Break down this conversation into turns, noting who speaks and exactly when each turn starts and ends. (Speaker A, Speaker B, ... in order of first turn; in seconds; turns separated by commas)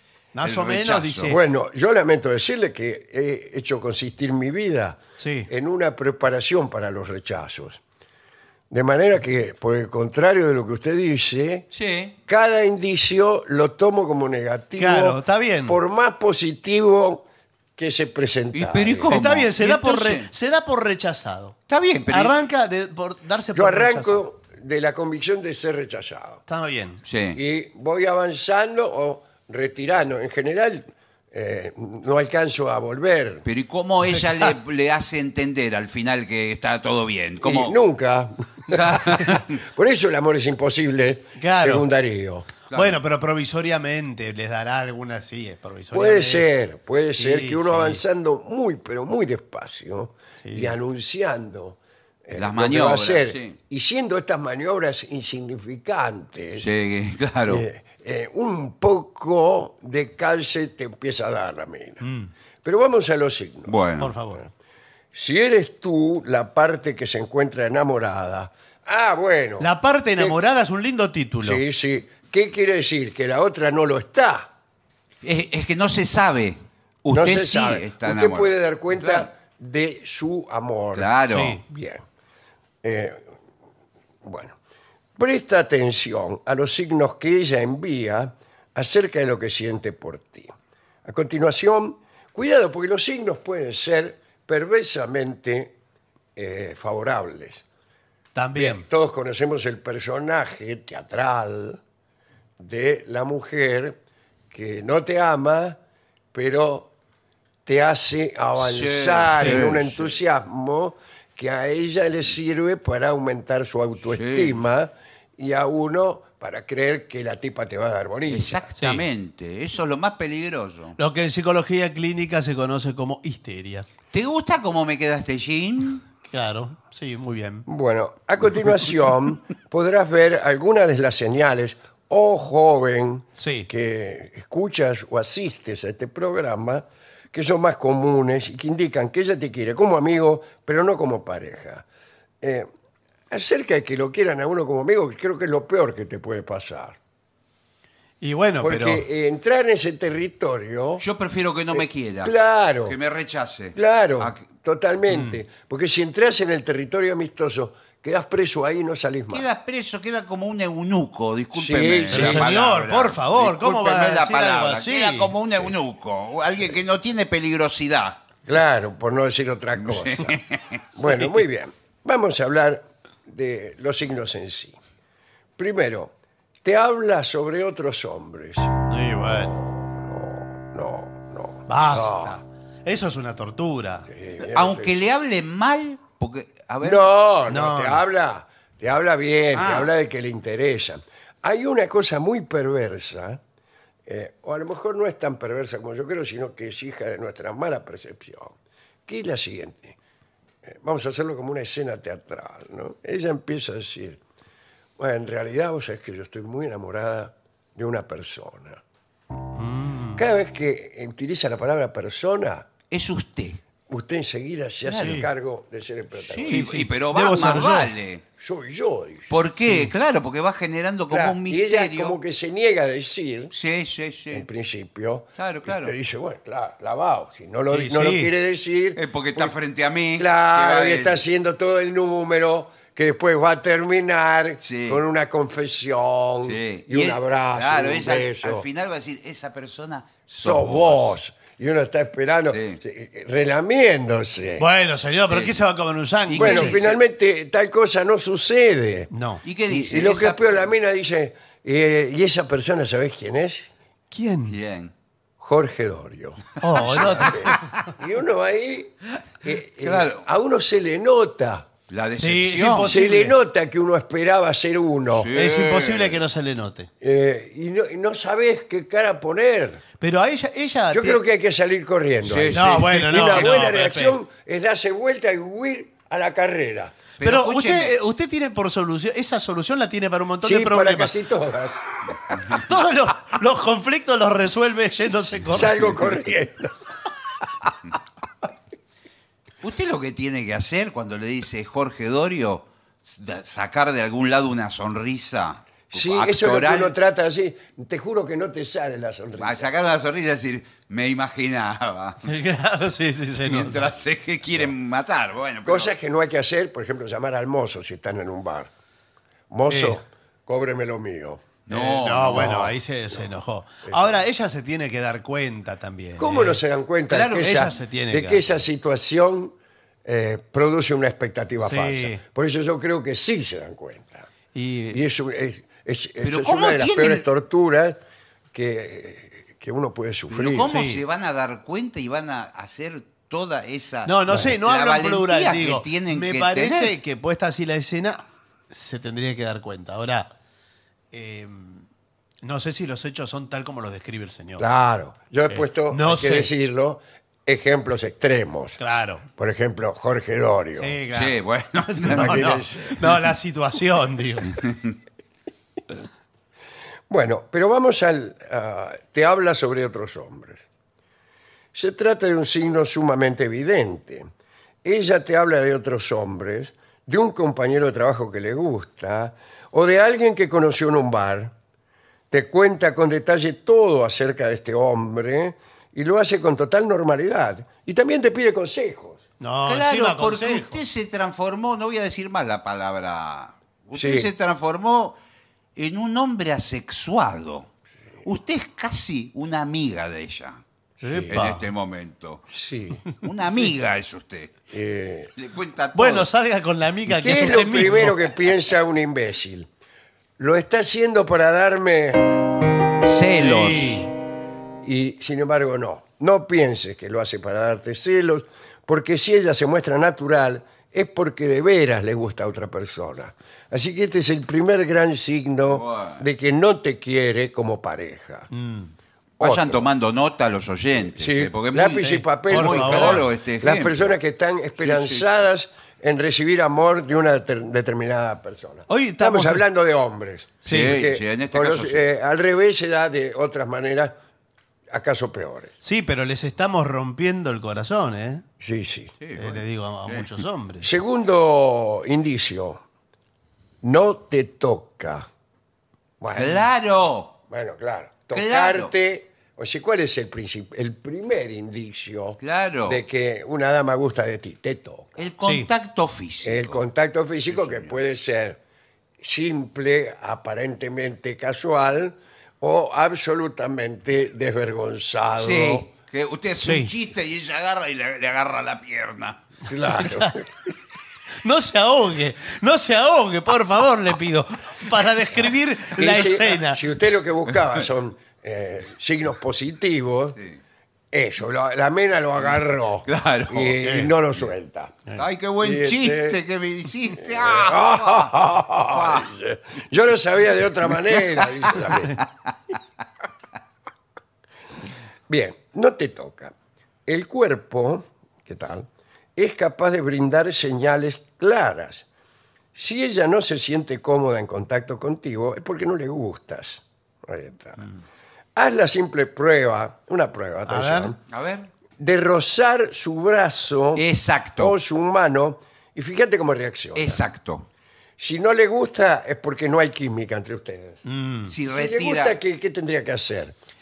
Speaker A: 0.3-1.4, Speaker B: 0.4-1.4, Speaker C: 1.3-7.8, Speaker A: 5.2-5.5, Speaker C: 8.7-11.7, Speaker B: 11.7-12.1, Speaker C: 12.3-17.2, Speaker A: 14.8-15.8, Speaker C: 17.8-19.2, Speaker B: 18.5-20.3, Speaker A: 19.1-21.5, Speaker B: 21.7-22.4, Speaker A: 22.1-24.2, Speaker C: 23.5-26.4, Speaker A: 26.5-27.0, Speaker B: 27.0-27.4, Speaker C: 27.3-33.4, Speaker B: 33.5-37.8, Speaker A: 34.1-34.5, Speaker C: 37.4-42.5, Speaker B: 38.7-39.5, Speaker A: 41.4-41.8, Speaker B: 42.7-43.0, Speaker A: 42.7-46.5, Speaker C: 45.9-56.7, Speaker A: 47.1-48.0, Speaker A: 50.4-50.8, Speaker B: 52.3-53.6, Speaker B: 56.6-57.6, Speaker C: 57.5-62.0, Speaker A: 62.0-62.3, Speaker C: 62.6-63.8, Speaker B: 63.7-64.1, Speaker A: 64.0-64.4, Speaker C: 65.1-70.4, Speaker A: 69.6-71.6, Speaker C: 71.4-74.5, Speaker B: 75.2-79.3, Speaker C: 77.1-81.1, Speaker B: 80.9-81.6, Speaker A: 81.3-81.6, Speaker C: 81.6-82.0, Speaker C: 82.8-83.3, Speaker C: 84.2-84.6, Speaker C: 85.2-90.5, Speaker C: 91.0-95.7, Speaker C: 96.3-97.6, Speaker A: 98.3-98.8, Speaker C: 98.5-101.8, Speaker C: 102.6-104.0, Speaker C: 104.5-105.8, Speaker C: 106.3-106.9, Speaker C: 107.7-118.7, Speaker B: 108.5-110.1, Speaker B: 114.0-114.6, Speaker B: 118.3-121.0, Speaker A: 118.8-119.0, Speaker A: 121.0-123.9, Speaker B: 124.1-126.0, Speaker A: 126.3-127.7, Speaker C: 127.7-141.8, Speaker A: 133.3-133.7, Speaker C: 142.4-142.7, Speaker C: 143.3-147.0, Speaker A: 148.2-149.0, Speaker C: 148.6-151.0, Speaker B: 151.0-152.3, Speaker C: 151.7-152.9, Speaker B: 152.8-154.4, Speaker C: 153.7-159.4, Speaker A: 155.1-155.4, Speaker B: 159.3-168.2, Speaker C: 161.5-162.5, Speaker A: 162.1-165.3, Speaker C: 168.4-170.4, Speaker B: 169.8-170.8, Speaker C: 170.9-174.8, Speaker C: 175.6-176.1, Speaker C: 176.6-182.3, Speaker A: 178.9-179.5, Speaker A: 181.7-184.1, Speaker C: 184.1-184.9, Speaker B: 184.4-187.1, Speaker C: 186.8-193.4, Speaker A: 187.5-188.0, Speaker B: 189.5-189.9, Speaker C: 194.1-198.6, Speaker C: 199.1-200.0, Speaker C: 200.6-204.2, Speaker C: 205.0-208.8, Speaker A: 209.5-210.2, Speaker C: 210.2-212.7, Speaker B: 212.9-213.6, Speaker C: 213.9-216.7, Speaker A: 214.9-215.3, Speaker B: 216.2-218.2, Speaker A: 216.5-217.9, Speaker C: 218.4-219.3, Speaker B: 219.3-222.2, Speaker C: 221.1-223.5, Speaker B: 223.5-224.5, Speaker C: 224.3-229.5, Speaker B: 225.4-225.9, Speaker A: 227.7-228.3, Speaker B: 228.9-231.2, Speaker C: 230.2-238.6, Speaker B: 234.6-235.0, Speaker B: 236.4-241.2, Speaker C: 240.3-244.7, Speaker B: 242.5-242.8, Speaker A: 244.6-246.8, Speaker B: 245.3-245.6, Speaker B: 246.3-247.0, Speaker C: 246.3-249.1, Speaker A: 249.1-249.4, Speaker B: 249.4-250.6, Speaker C: 249.7-253.7, Speaker A: 254.1-254.6, Speaker B: 254.5-254.9, Speaker C: 255.4-261.7, Speaker A: 256.6-257.7, Speaker B: 256.9-257.6, Speaker B: 259.8-260.2, Speaker B: 261.9-262.9, Speaker A: 262.2-263.4, Speaker C: 262.8-265.3, Speaker B: 265.1-266.2, Speaker A: 265.3-266.9, Speaker C: 267.0-269.8, Speaker A: 270.0-271.2, Speaker C: 270.9-276.9, Speaker B: 272.2-273.7, Speaker A: 272.5-274.2, Speaker B: 277.2-277.9, Speaker A: 277.2-281.1, Speaker C: 280.4-282.3, Speaker B: 282.3-282.6, Speaker A: 282.5-286.0, Speaker C: 285.5-286.7, Speaker C: 287.4-287.7, Speaker B: 289.6-296.9, Speaker C: 295.9-299.7, Speaker B: 299.4-302.3, Speaker A: 302.2-303.8, Speaker B: 303.4-305.9, Speaker C: 305.6-308.7, Speaker C: 309.5-311.5, Speaker A: 309.7-310.0, Speaker B: 311.7-312.7, Speaker A: 311.7-316.6, Speaker C: 312.3-312.7, Speaker C: 313.8-314.2, Speaker C: 316.2-324.3, Speaker B: 317.1-317.8, Speaker A: 317.5-318.4, Speaker A: 321.6-322.2, Speaker A: 324.5-325.0, Speaker C: 324.9-328.0, Speaker B: 326.2-327.2, Speaker C: 328.5-330.7, Speaker B: 330.3-336.9, Speaker A: 330.6-331.0, Speaker A: 334.1-340.3, Speaker A: 341.1-341.9, Speaker A: 342.4-344.6, Speaker C: 344.6-348.8, Speaker A: 345.5-346.5, Speaker A: 348.8-349.2, Speaker C: 349.4-351.0, Speaker A: 350.8-354.6, Speaker B: 351.1-352.6, Speaker C: 352.0-353.1, Speaker C: 357.1-360.6, Speaker C: 361.7-364.3, Speaker C: 364.8-371.5, Speaker C: 372.3-379.2, Speaker A: 379.4-380.8, Speaker B: 379.6-385.2, Speaker C: 383.9-384.3, Speaker B: 385.8-387.7, Speaker B: 388.2-390.6, Speaker C: 391.0-391.4, Speaker A: 391.0-391.6, Speaker B: 391.3-392.4, Speaker C: 392.5-393.0, Speaker B: 393.2-394.6, Speaker C: 394.7-395.3, Speaker B: 395.4-396.3, Speaker A: 395.9-398.2, Speaker C: 397.1-399.7, Speaker C: 400.4-402.4, Speaker B: 403.0-404.1, Speaker A: 403.4-404.1, Speaker C: 404.8-418.5, Speaker B: 415.7-416.2, Speaker A: 418.5-418.9, Speaker C: 419.4-419.9, Speaker B: 419.4-424.1, Speaker C: 421.1-434.1, Speaker A: 422.0-423.2, Speaker B: 424.8-425.3, Speaker A: 428.9-429.6, Speaker A: 430.6-431.0, Speaker B: 430.6-432.0, Speaker C: 434.9-435.7, Speaker A: 435.8-438.4, Speaker C: 438.6-439.1, Speaker B: 439.2-440.3, Speaker A: 439.4-440.9, Speaker C: 440.8-442.8, Speaker C: 443.8-445.3, Speaker C: 446.2-446.7, Speaker B: 446.3-447.4, Speaker C: 447.5-455.2, Speaker B: 448.3-448.9, Speaker B: 452.4-453.0, Speaker B: 455.2-456.8, Speaker A: 455.4-455.7, Speaker C: 456.4-458.6, Speaker B: 457.5-457.9, Speaker C: 459.2-465.9, Speaker B: 465.4-469.4, Speaker A: 466.6-466.9, Speaker C: 469.7-470.5, Speaker A: 469.9-470.4, Speaker A: 471.4-476.8, Speaker C: 475.9-480.4, Speaker C: 481.1-485.0, Speaker B: 483.1-483.8, Speaker A: 483.8-484.1, Speaker B: 485.1-489.3, Speaker C: 485.6-486.4, Speaker C: 487.2-492.2, Speaker B: 491.1-492.3, Speaker C: 495.3-496.5, Speaker C: 497.1-502.1, Speaker C: 502.7-507.9, Speaker C: 508.5-511.2, Speaker A: 510.7-511.1, Speaker B: 511.3-511.7, Speaker C: 512.0-514.0, Speaker B: 514.0-514.7, Speaker C: 514.6-517.2, Speaker B: 516.9-517.7, Speaker C: 518.2-521.0, Speaker A: 521.0-521.5, Speaker B: 521.5-522.4, Speaker C: 521.7-523.5